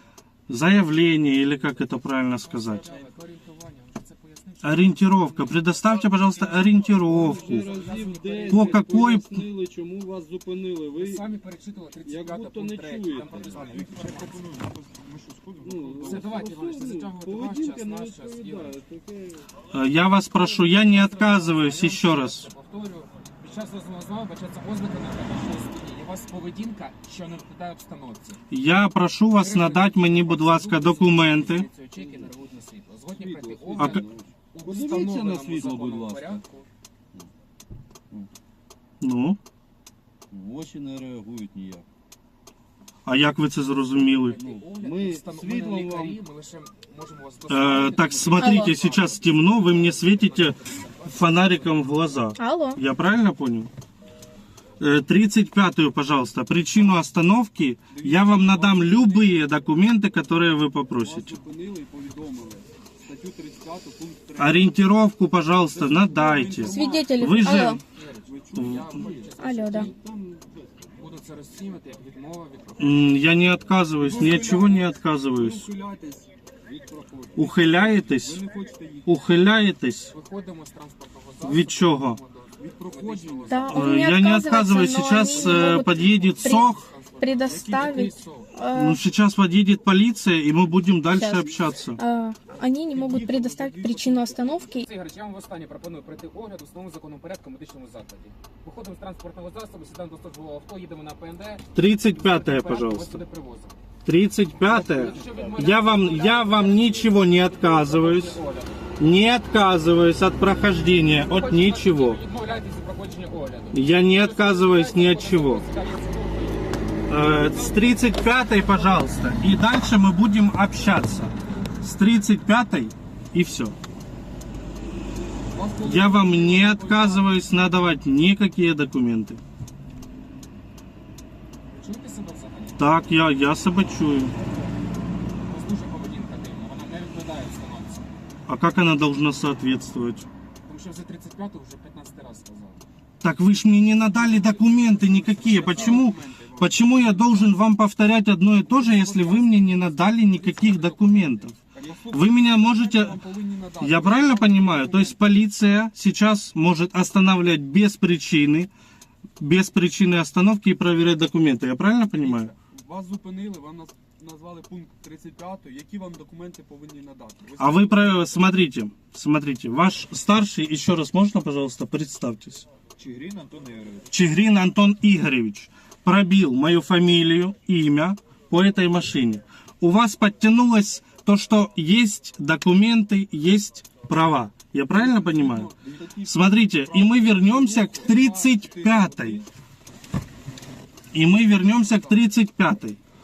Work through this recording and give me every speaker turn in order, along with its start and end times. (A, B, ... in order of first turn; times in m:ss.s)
0:00.5-0:02.8 A
0:02.4-0:09.0 B
0:02.8-0:03.1 C
0:04.6-0:07.7 A
0:07.0-0:11.2 C
0:08.5-0:09.5 A
0:11.0-0:14.4 B
0:12.0-0:13.9 C
0:13.3-0:16.6 D
0:15.6-0:19.5 C
0:16.0-0:18.8 B
0:19.7-0:22.5 A
0:20.4-0:28.4 B
0:28.5-0:31.7 A
0:29.3-0:36.7 B
0:31.9-0:32.3 C
0:33.1-0:36.4 C
0:33.8-0:34.0 A
0:39.0-0:39.4 A
0:40.3-0:41.8 C
0:43.0-0:44.4 A
0:43.9-0:51.7 B
0:44.4-0:46.2 C
0:47.5-0:53.7 A
0:48.4-0:48.7 E
0:52.4-0:52.8 E
0:54.8-1:01.4 A
0:57.9-0:58.3 C
0:58.2-0:59.0 D
0:59.0-0:59.3 C
1:01.0-1:04.6 C
1:04.2-1:04.7 D
1:04.4-1:07.8 A
1:05.7-1:07.6 C
1:06.6-1:07.8 E
1:06.8-1:09.9 B
1:08.2-1:11.0 C
1:08.5-1:09.1 A
1:09.4-1:09.9 E
1:11.0-1:13.2 B
1:12.8-1:15.7 A
1:14.0-1:19.1 C
1:14.1-1:14.8 D
1:17.4-1:18.4 A
1:19.0-1:20.1 A
1:20.1-1:23.9 B
1:21.4-1:22.2 A
1:22.6-1:23.6 C
1:23.5-1:29.0 E
1:23.7-1:26.9 A
1:25.2-1:28.5 B
1:28.7-1:32.0 A
1:31.1-1:34.8 E
1:32.9-1:34.6 C
1:33.8-1:34.3 D
1:34.8-1:43.7 B
1:41.7-1:43.2 A
1:44.0-1:48.4 A
1:44.6-1:48.9 B
1:44.8-1:45.6 C
1:49.0-1:52.2 A
1:51.2-1:57.6 B
1:53.7-1:55.6 A
1:57.1-2:03.8 A
1:58.2-1:59.0 B
2:05.5-2:06.0 C
2:05.6-2:07.2 D
2:05.8-2:09.4 A
2:06.7-2:07.1 C
2:11.7-2:12.9 B
2:12.8-2:14.3 A
2:15.4-2:18.1 B
2:18.5-2:20.3 A
2:20.6-2:22.8 B
2:23.2-2:31.6 A
2:24.1-2:24.9 B
2:25.1-2:26.8 C
2:25.4-2:26.0 D
2:25.5-2:26.1 B
2:26.8-2:27.5 D
2:28.7-2:29.2 C
2:29.0-2:31.5 B
2:31.7-2:35.1 C
2:32.1-2:33.2 A
2:33.7-2:35.0 D
2:33.8-2:38.7 A
2:39.4-2:42.5 A
2:42.2-2:48.0 C
2:43.5-2:44.1 D
2:44.9-2:45.4 D
2:46.0-2:48.2 D
2:47.6-2:52.7 A
2:53.0-2:54.2 D
2:54.1-3:09.4 A
3:04.9-3:09.4 C
3:05.1-3:09.2 D
3:11.1-3:13.0 A